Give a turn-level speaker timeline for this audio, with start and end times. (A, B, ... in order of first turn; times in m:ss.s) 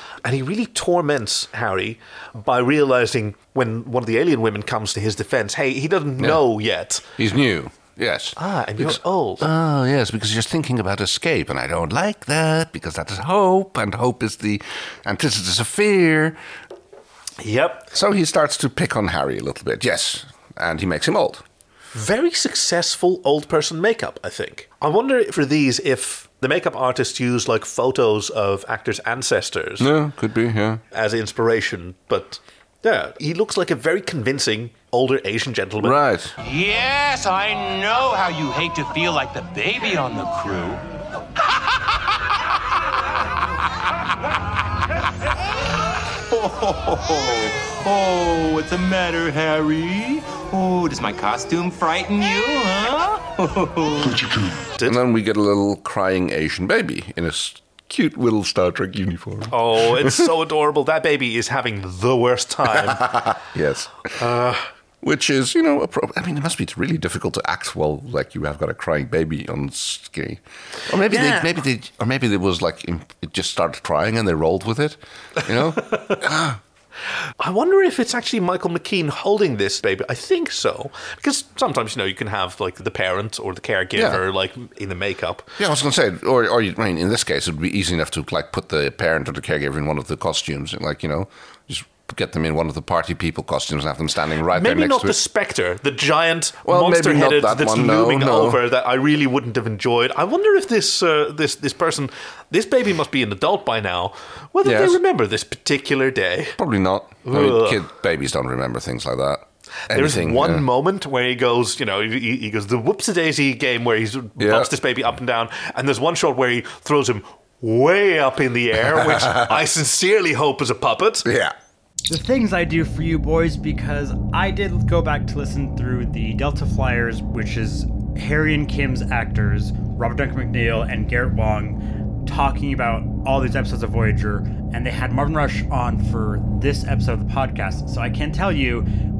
0:00.2-0:07.0 A
0:07.2-0:16.4 B
0:08.4-0:09.5 A
0:17.4-0:17.9 A
0:17.9-0:21.4 B
0:21.9-0:29.9 A
0:29.8-0:30.8 B
0:30.9-0:36.0 A
0:35.8-0:36.3 B
0:36.4-0:40.8 C
0:46.3-0:54.2 C
0:54.8-1:00.3 B
0:59.5-1:03.2 A
1:02.7-1:04.1 B
1:04.2-1:04.7 A
1:05.0-1:16.6 B
1:11.1-1:11.6 A
1:17.4-1:25.5 A
1:23.9-1:24.2 B
1:25.6-1:35.2 B
1:34.5-1:46.6 A
1:36.6-1:38.7 B
1:44.6-1:45.0 B
1:46.6-1:50.6 B
1:47.2-1:47.8 A
1:49.9-2:01.3 A
1:54.4-1:54.7 B
1:59.0-1:59.6 B
2:01.2-2:01.5 B
2:02.1-2:18.9 D